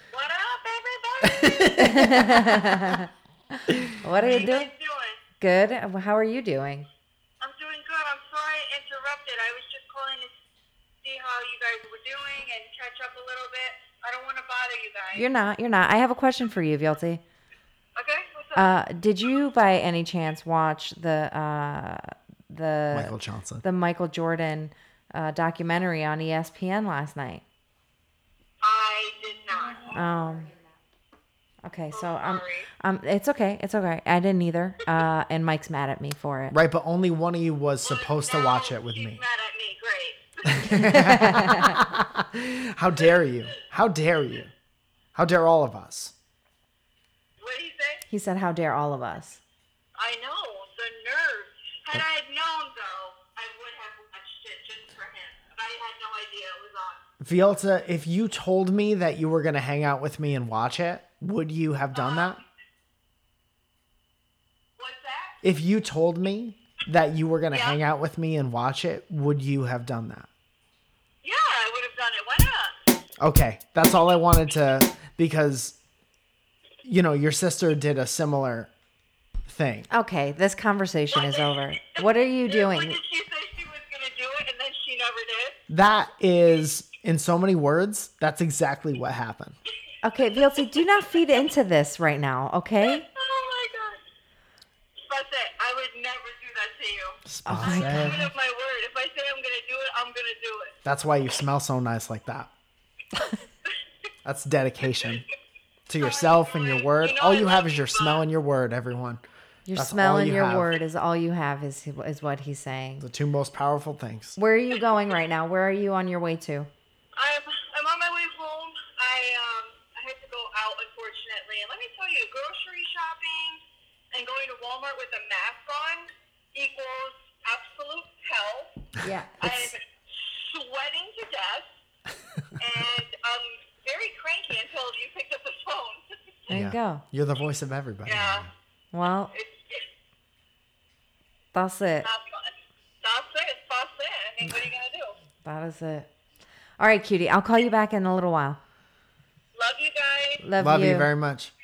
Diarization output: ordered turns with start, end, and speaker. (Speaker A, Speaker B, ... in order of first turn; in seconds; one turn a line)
Speaker A: 0.1-2.6
Speaker B: 1.3-2.3
Speaker C: 1.7-4.7
Speaker A: 4.2-5.2
Speaker C: 5.4-6.9
Speaker A: 7.4-10.3
Speaker A: 11.0-15.3
Speaker C: 15.1-17.2
Speaker A: 17.9-18.7
Speaker C: 18.5-27.4
Speaker B: 22.9-23.6
Speaker A: 28.6-29.9
Speaker C: 29.9-30.5
Speaker C: 31.6-36.5
Speaker A: 31.9-32.7
Speaker B: 36.5-39.2
Speaker A: 37.8-40.9
Speaker B: 40.4-44.5
Speaker C: 40.7-41.8
Speaker B: 45.1-46.1
Speaker A: 47.4-48.0
Speaker C: 48.1-49.4
Speaker A: 50.0-57.0
Speaker B: 57.2-62.4
Speaker A: 61.9-62.4
Speaker A: 64.8-65.4
Speaker B: 65.4-70.3
Speaker A: 67.5-67.8
Speaker A: 71.2-72.7
Speaker B: 73.2-75.8
Speaker B: 76.8-78.7
Speaker B: 79.5-79.9
Speaker C: 79.9-83.0
Speaker A: 81.1-85.6
Speaker B: 85.7-89.5
Speaker C: 90.0-93.0
Speaker A: 92.8-94.0
Speaker A: 95.0-100.7
Speaker B: 97.2-98.3
Speaker C: 97.5-98.3
Speaker B: 100.8-102.5
Speaker B: 104.2-105.2
Speaker B: 105.9-109.2
Speaker A: 106.0-108.2
Speaker C: 109.7-113.0
Speaker B: 109.7-110.7
Speaker B: 113.0-114.4
Speaker C: 114.4-116.7
Speaker A: 117.2-123.6
Speaker A: 124.1-131.7
Speaker C: 129.0-129.7
Speaker A: 132.6-136.0
Speaker C: 136.5-137.0
Speaker B: 136.5-138.5
Speaker A: 138.1-138.4
Speaker C: 138.9-139.3
Speaker A: 139.3-139.8
Speaker C: 141.5-142.1
Speaker A: 142.0-145.1
Speaker C: 145.4-146.1
Speaker C: 146.8-148.6
Speaker A: 149.5-150.4
Speaker C: 150.4-151.1
Speaker B: 150.6-151.5